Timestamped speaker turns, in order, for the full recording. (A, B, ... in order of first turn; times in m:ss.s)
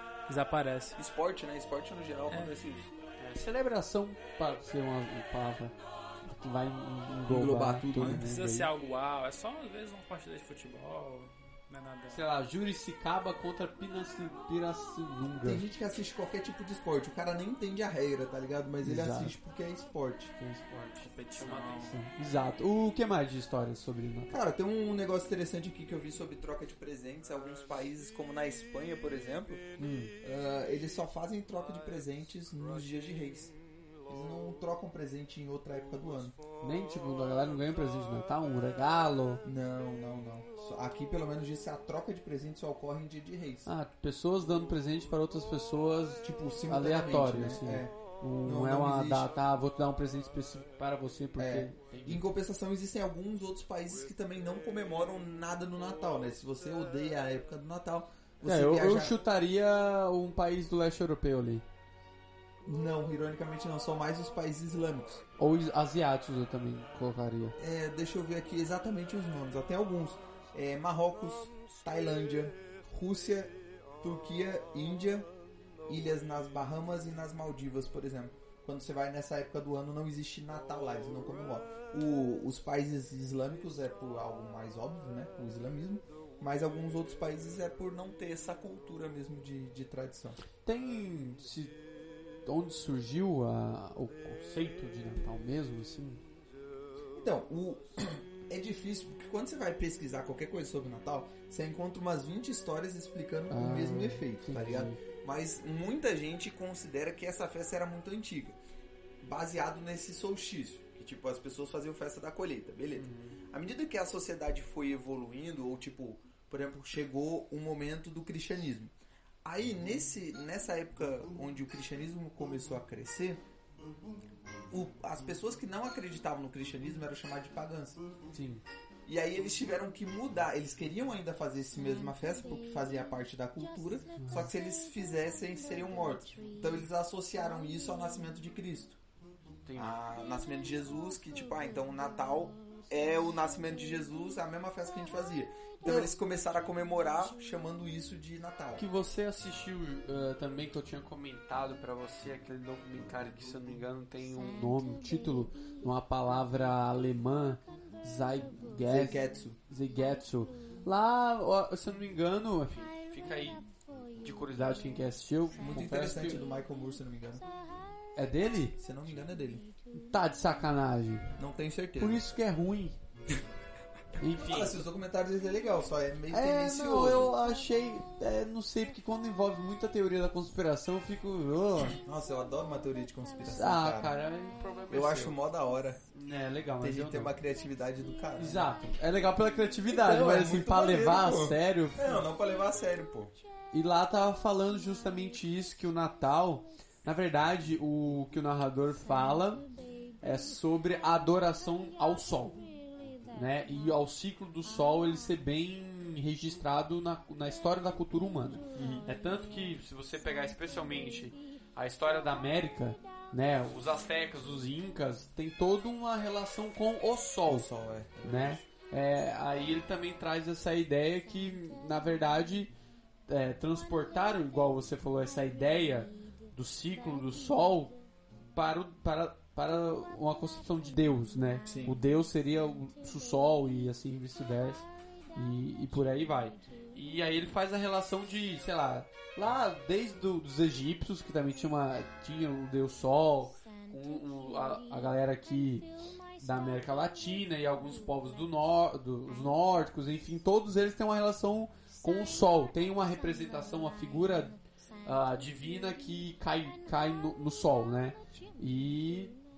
0:00.3-0:01.0 A
0:01.0-0:02.9 B
0:02.3-0:02.5 A
0:03.2-0:08.7 C
0:07.3-0:08.2 B
0:08.0-0:12.2 A
0:12.1-0:15.6 C
0:15.4-0:20.3 B
0:18.8-0:19.4 C
0:20.4-0:24.4 C
0:21.0-0:22.0 A
0:24.3-0:29.6 B
0:29.8-0:30.1 C
0:30.2-0:33.6 B
0:34.1-0:36.4 B
0:36.6-0:39.4 C
0:39.4-0:43.7 B
0:43.6-0:52.2 C
0:46.2-0:49.3 B
0:51.4-0:59.2 B
0:58.4-1:01.6 C
1:02.6-1:05.2 B
1:05.4-1:07.6 C
1:07.6-1:15.3 B
1:15.9-1:30.4 B
1:30.7-1:31.8 C
1:32.5-1:36.2 C
1:37.1-1:48.6 B
1:43.5-1:45.0 C
1:49.2-1:58.9 B
1:52.9-1:53.4 C
1:59.4-2:03.4 B
2:04.7-2:08.0 B
2:08.3-2:08.6 C
2:09.1-2:19.0 B
2:14.2-2:14.5 C
2:19.6-2:20.0 C
2:19.8-2:28.8 B
2:28.8-2:43.6 C
2:38.9-2:39.6 B
2:44.2-2:46.4 C
2:45.6-2:47.4 B
2:48.2-2:48.8 C
2:48.8-2:49.7 B
2:49.9-2:51.3 C
2:51.4-2:52.2 B
2:52.0-2:53.0 C
2:54.2-2:54.8 C
2:54.4-2:57.3 B
2:56.3-3:02.0 C
3:01.9-3:04.1 B
3:03.5-3:05.4 C
3:04.9-3:06.0 B
3:06.1-3:07.3 C
3:06.8-3:08.7 B
3:08.4-3:12.2 C
3:09.9-3:13.4 B
3:13.7-3:19.7 C
3:20.2-3:22.6 C
3:23.2-3:37.7 C
3:28.8-3:29.1 B
3:37.5-3:38.6 B
3:38.2-3:42.7 C
3:43.3-4:19.4 C
3:51.6-3:52.0 B